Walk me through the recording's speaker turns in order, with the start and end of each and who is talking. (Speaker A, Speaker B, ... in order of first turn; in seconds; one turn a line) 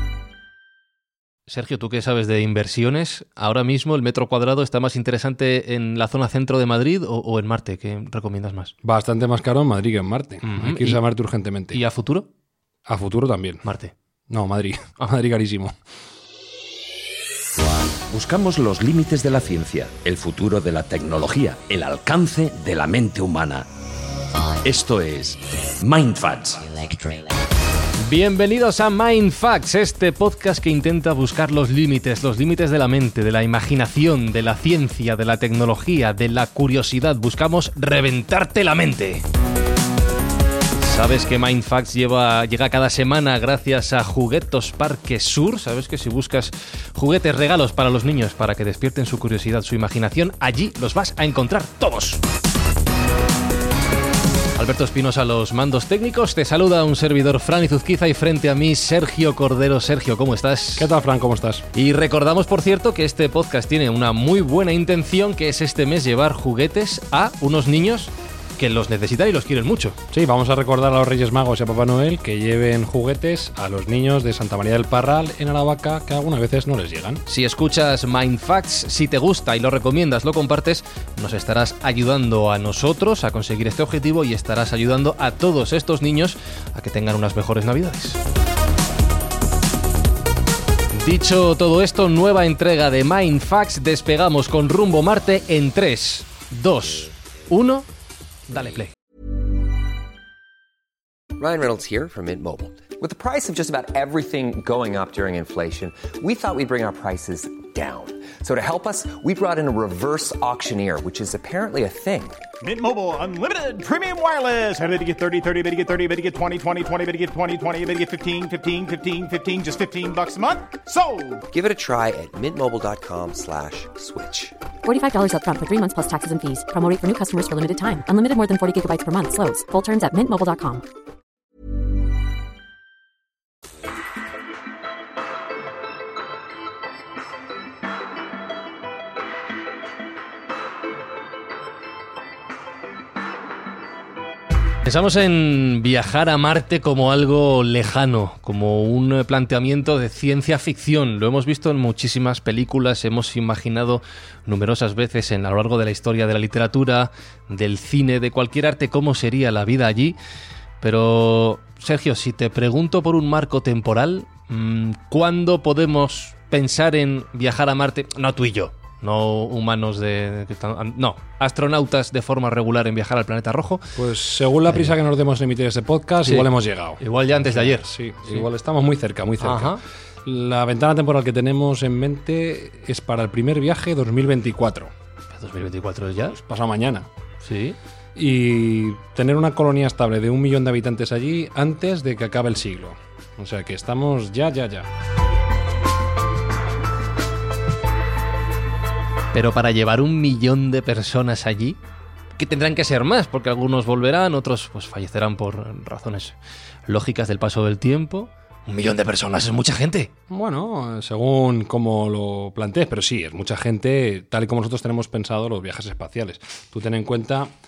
Speaker A: 1.5-8.7
Speaker B: 8.8-11.8
Speaker A: 10.4-11.0
Speaker A: 11.7-12.3
Speaker B: 12.9-13.7
Speaker A: 13.6-13.9
Speaker B: 14.3-15.8
Speaker C: 18.1-23.7
Speaker C: 24.6-27.1
Speaker A: 28.1-39.2
Speaker A: 40.8-52.2
Speaker A: 54.6-60.9
Speaker B: 60.8-61.7
Speaker A: 61.7-70.0
Speaker B: 70.1-77.2
Speaker A: 77.3-88.2
Speaker A: 90.9-97.8
Speaker A: 98.5-98.9
Speaker D: 101.4-112.4
Speaker E: 112.6-121.4
Speaker D: 121.5-124.5
Speaker F: 124.8-130.8
Speaker A: 144.8-160.2
Speaker A: 160.8-174.0
Speaker B: 174.0-184.9
Speaker A: 176.2-178.4
Speaker A: 179.4-179.8
Speaker A: 185.3-186.4
Speaker B: 186.3-187.1
Speaker A: 187.4-187.8
Speaker B: 188.2-194.9
Speaker A: 199.3-201.8
Speaker A: 202.4-206.4
Speaker A: 206.9-210.1
Speaker B: 210.3-217.5